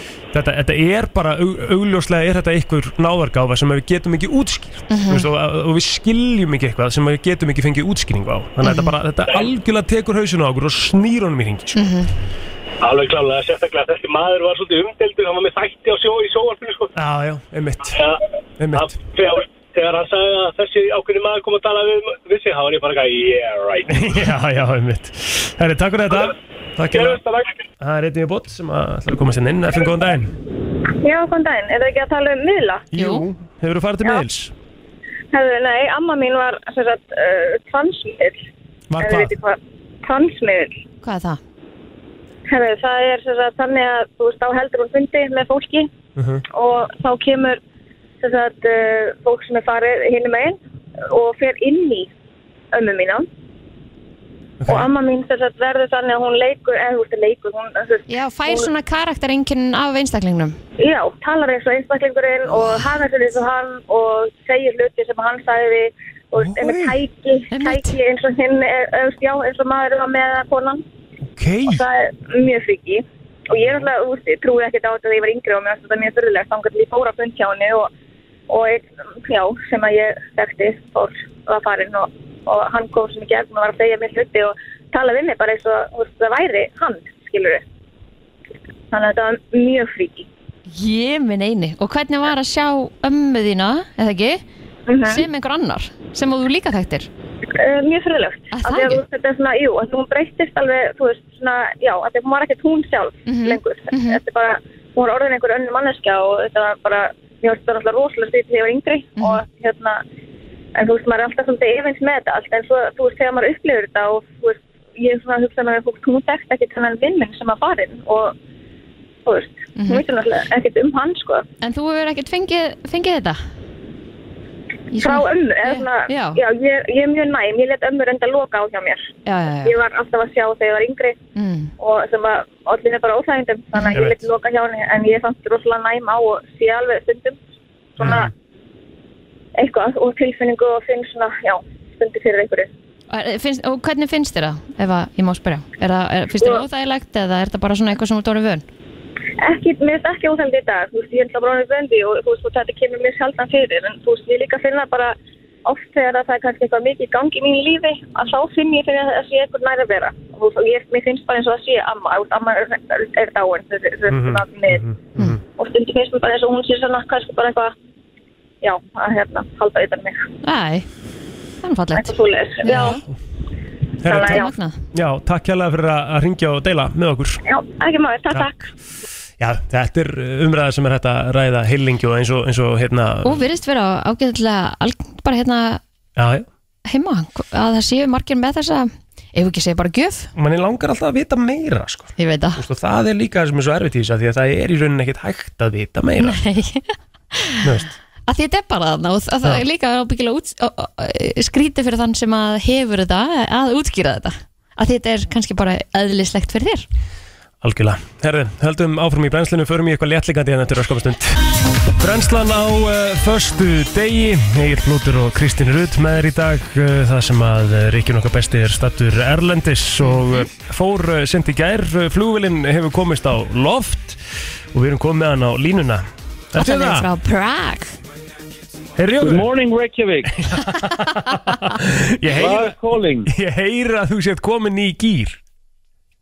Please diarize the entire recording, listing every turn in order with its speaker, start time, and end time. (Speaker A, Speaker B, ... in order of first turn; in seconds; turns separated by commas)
Speaker A: 0.3-11.9, Speaker B: 4.9-5.3, Speaker B: 8.6-8.9, Speaker B: 11.8-12.1, Speaker C: 12.8-16.9, Speaker A: 16.9-18.0, Speaker C: 17.9-18.2, Speaker A: 18.6-18.9, Speaker C: 18.7-24.1, Speaker A: 23.9-27.2, Speaker C: 26.9-27.6, Speaker A: 27.8-30.3, Speaker D: 31.0-32.9, Speaker A: 32.9-34.5, Speaker B: 32.9-33.2, Speaker D: 35.3-38.5, Speaker A: 38.9-39.3, Speaker D: 39.0-40.8, Speaker B: 41.0-41.4, Speaker D: 42.5-45.9, Speaker A: 46.1-46.4, Speaker D: 46.5-47.6, Speaker D: 48.2-52.1, Speaker D: 52.7-53.3, Speaker A: 54.6-54.9, Speaker D: 54.6-58.7, Speaker B: 58.1-60.5, Speaker D: 60.8-70.8, Speaker B: 62.6-62.8, Speaker A: 66.3-67.0, Speaker B: 67.5-68.0, Speaker A: 71.3-71.8, Speaker D: 71.7-77.9, Speaker D: 78.5-87.6, Speaker D: 88.9-90.3, Speaker B: 90.7-94.4, Speaker D: 94.9-95.2, Speaker B: 95.1-97.1, Speaker D: 97.6-110.0, Speaker B: 98.5-99.0, Speaker B: 103.3-104.2, Speaker D: 110.8-118.3, Speaker D: 119.2-121.4, Speaker B: 119.8-120.0, Speaker B: 121.6-123.4, Speaker B: 124.9-126.4, Speaker D: 125.0-129.1, Speaker B: 129.2-129.8, Speaker D: 129.6-131.2, Speaker B: 131.3-131.7, Speaker D: 131.8-137.4, Speaker A: 133.9-134.2, Speaker A: 138.0-138.3, Speaker D: 138.0-138.3, Speaker D: 139.6-142.7, Speaker B: 143.1-148.6, Speaker D: 149.4-164.8, Speaker A: 164.1-165.4, Speaker D: 165.6-167.7, Speaker D: 168.6-170.2, Speaker B: 170.4-170.9, Speaker B: 171.6-173.0, Speaker D: 171.9-173.0, Speaker A: 174.0-177.4, Speaker D: 174.1-174.5, Speaker B: 174.1-174.8, Speaker D: 177.4-178.7, Speaker A: 179.4-183.4, Speaker B: 183.2-185.8, Speaker A: 186.2-186.5, Speaker B: 186.8-190.3, Speaker A: 190.3-196.4, Speaker B: 192.2-192.6, Speaker B: 196.2-197.7, Speaker A: 197.6-197.9, Speaker B: 198.3-206.9, Speaker A: 207.6-224.2, Speaker B: 220.0-220.4, Speaker A: 224.7-227.1, Speaker B: 226.6-227.9, Speaker A: 229.0-229.5, Speaker E: 229.2-230.2, Speaker A: 230.3-235.4, Speaker E: 232.4-233.3